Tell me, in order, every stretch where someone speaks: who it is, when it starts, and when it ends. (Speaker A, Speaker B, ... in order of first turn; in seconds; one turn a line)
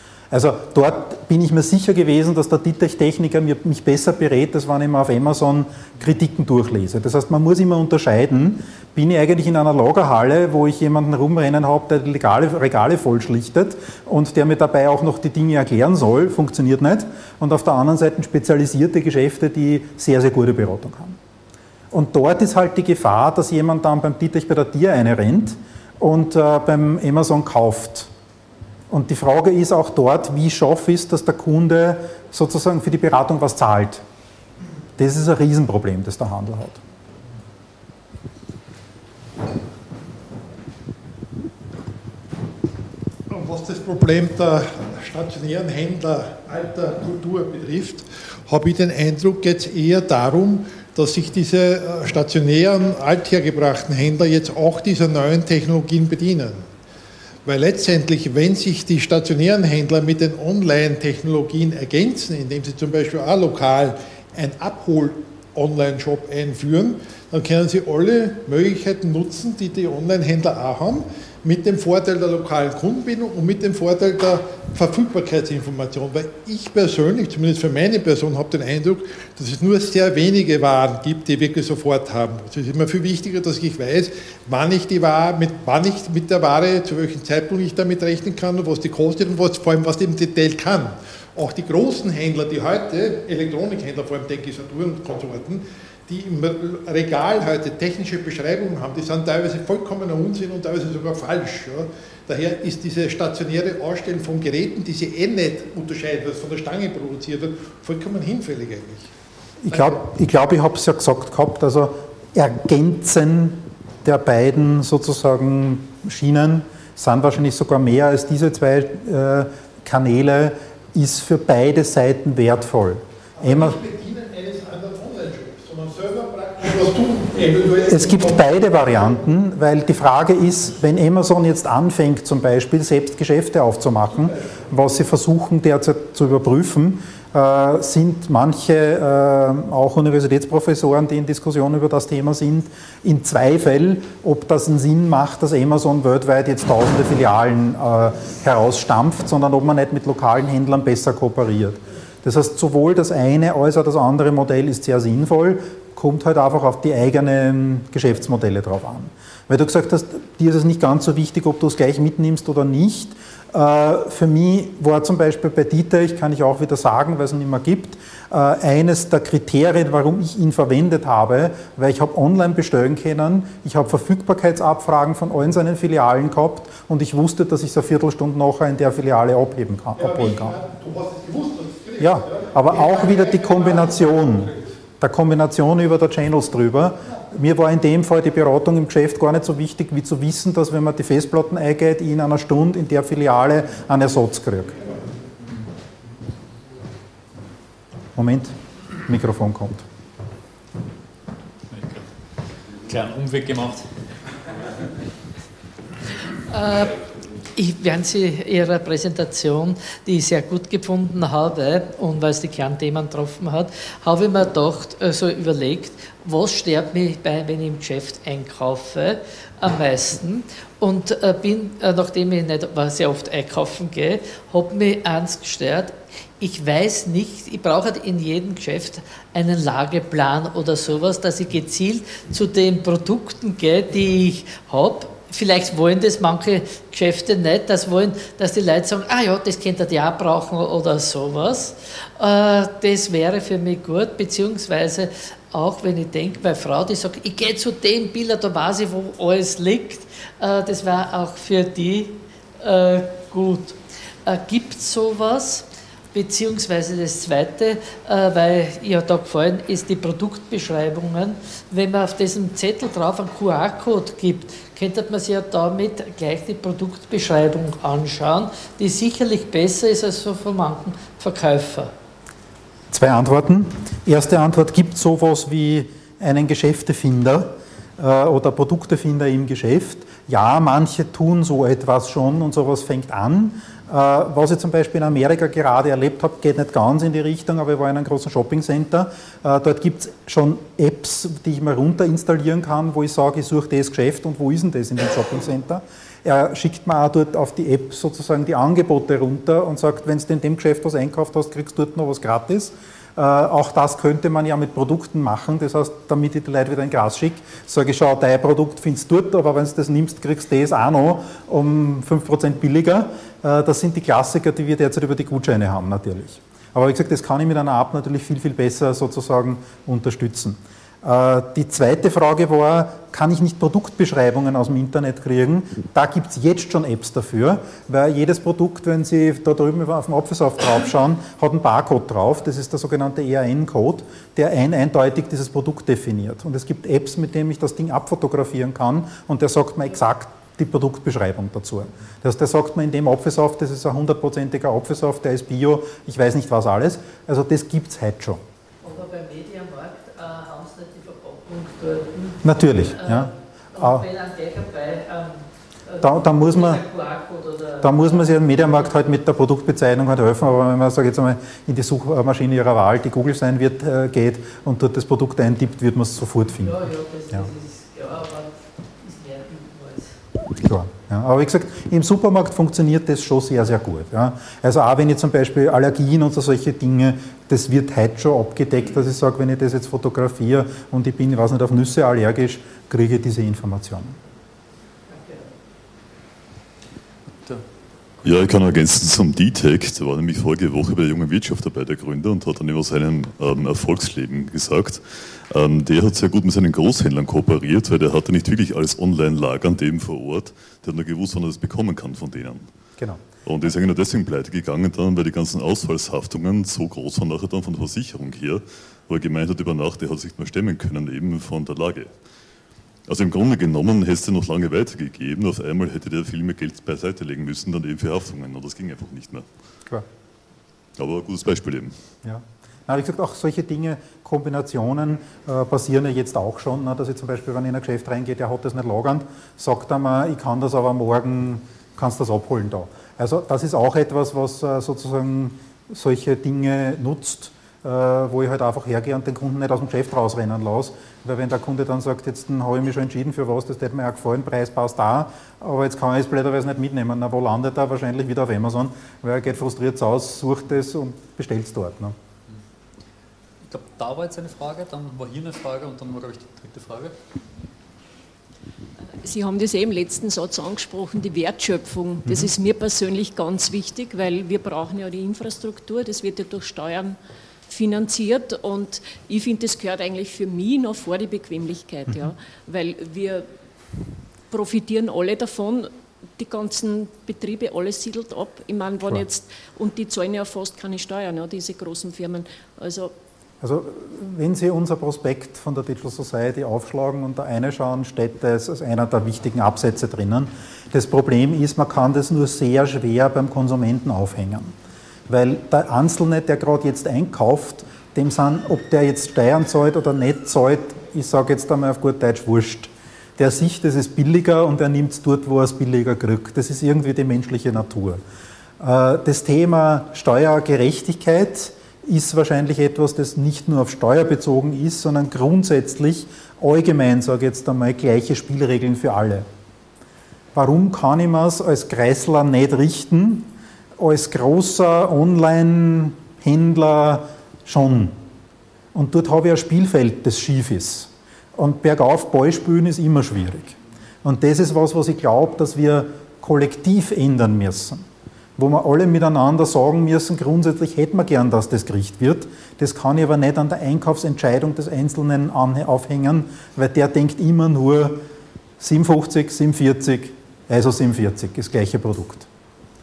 Speaker A: 0.3-21.2
Speaker A: 21.9-28.1
Speaker A: 28.9-34.0
Speaker A: 35.0-36.8
Speaker B: 43.3-56.7
Speaker B: 57.5-109.1
Speaker A: 109.6-123.8
Speaker B: 109.7-110.0
Speaker B: 123.4-128.5
Speaker A: 127.9-180.6
Speaker B: 180.0-184.6
Speaker A: 182.0-194.8
Speaker A: 198.2-199.8
Speaker C: 201.7-202.1
Speaker C: 202.9-203.8
Speaker D: 206.5-207.0
Speaker D: 207.6-271.9
Speaker A: 272.9-348.4
Speaker D: 348.8-358.9
Speaker A: 352.4-354.0
Speaker A: 356.0-356.8
Speaker A: 357.8-367.5
Speaker D: 366.6-370.2
Speaker A: 370.6-384.2
Speaker D: 385.1-385.4
Speaker E: 388.2-402.7
Speaker E: 403.4-412.1
Speaker E: 413.1-419.5
Speaker E: 421.0-422.0
Speaker A: 422.2-452.1
Speaker C: 453.6-457.1
Speaker F: 459.2-473.5
Speaker F: 474.5-483.1
Speaker A: 483.6-494.7
Speaker A: 495.3-508.2
Speaker A: 508.8-519.5
Speaker A: 520.5-528.2
Speaker A: 528.9-538.0
Speaker A: 538.6-548.2
Speaker A: 548.8-552.5